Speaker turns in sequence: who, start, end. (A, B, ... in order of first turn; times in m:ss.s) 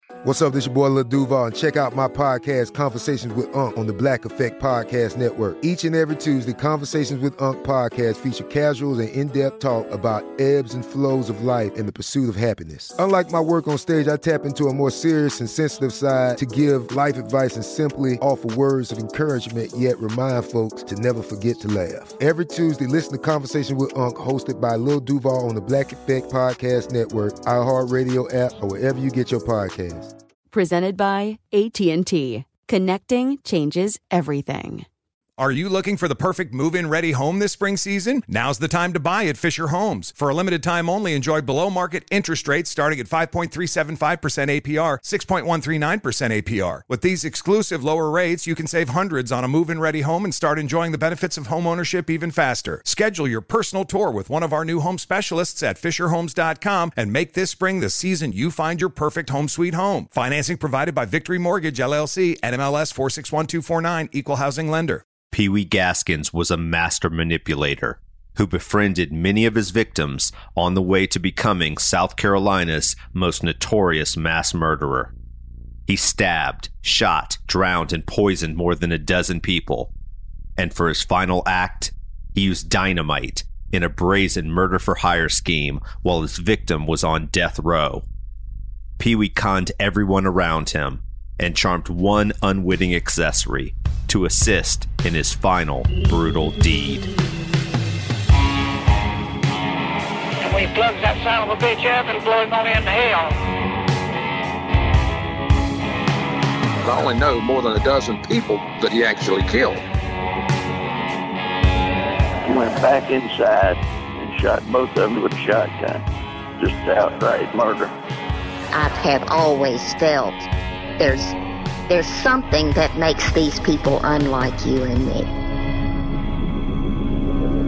0:00.2-0:30.1 A
0:30.5-0:34.9 B
0:35.4-1:05.0 C
1:05.3-1:15.1 D
1:15.9-1:19.9 D
1:20.6-1:28.0 D
1:29.0-1:37.1 D
1:40.4-1:43.4 E
1:46.8-1:49.8 F
1:52.4-1:56.0 G
1:56.6-1:57.9 G
1:58.7-2:01.4 H
2:01.9-2:05.3 H